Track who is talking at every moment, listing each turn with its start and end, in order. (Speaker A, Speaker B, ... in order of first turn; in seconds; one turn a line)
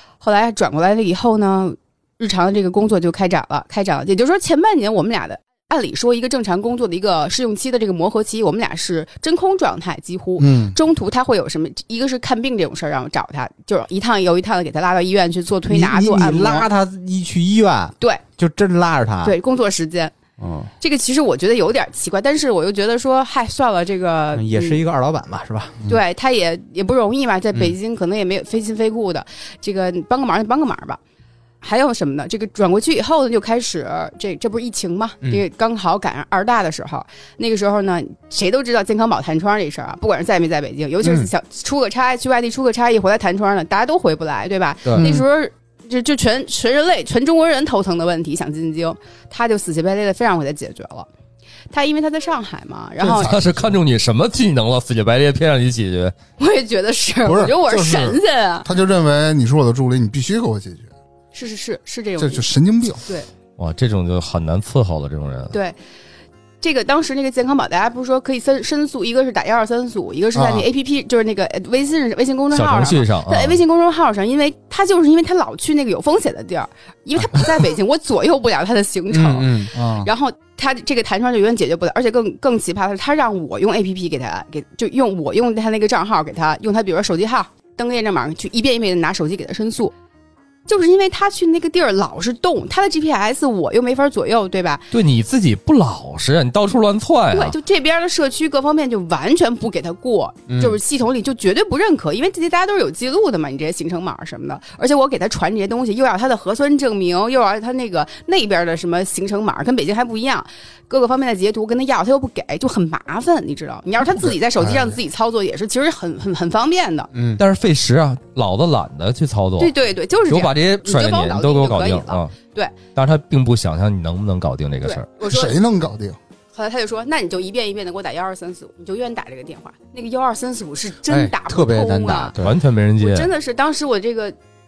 Speaker A: 0.2-16.7
Speaker B: 10.4-10.8
Speaker C: 15.7-19.4
Speaker A: 19.2-20.1
Speaker C: 20.4-20.7
Speaker A: 20.8-24.8
Speaker C: 24.4-25.8
Speaker A: 25.9-31.0
Speaker A: 31.6-51.1
Speaker C: 41.0-41.3
Speaker C: 44.8-45.1
Speaker A: 51.7-53.3
Speaker D: 53.0-56.1
Speaker B: 53.2-53.6
Speaker A: 56.4-58.7
Speaker B: 57.2-60.9
Speaker A: 61.3-62.5
Speaker B: 62.2-63.0
Speaker D: 63.6-65.5
Speaker A: 65.5-65.8
Speaker A: 66.6-89.9
Speaker B: 70.3-70.7
Speaker D: 72.5-73.6
Speaker C: 79.1-79.7
Speaker B: 79.7-80.1
Speaker A: 90.7-94.9
Speaker D: 94.9-97.5
Speaker A: 97.3-117.1
Speaker C: 100.5-100.8
Speaker B: 114.2-115.0
Speaker C: 117.1-117.4
Speaker D: 117.4-119.7
Speaker A: 119.6-122.8
Speaker D: 120.3-122.3
Speaker D: 123.0-125.1
Speaker A: 124.8-125.6
Speaker B: 125.2-126.2
Speaker A: 126.5-132.3
Speaker C: 131.1-132.6
Speaker D: 132.4-133.3
Speaker A: 133.0-134.3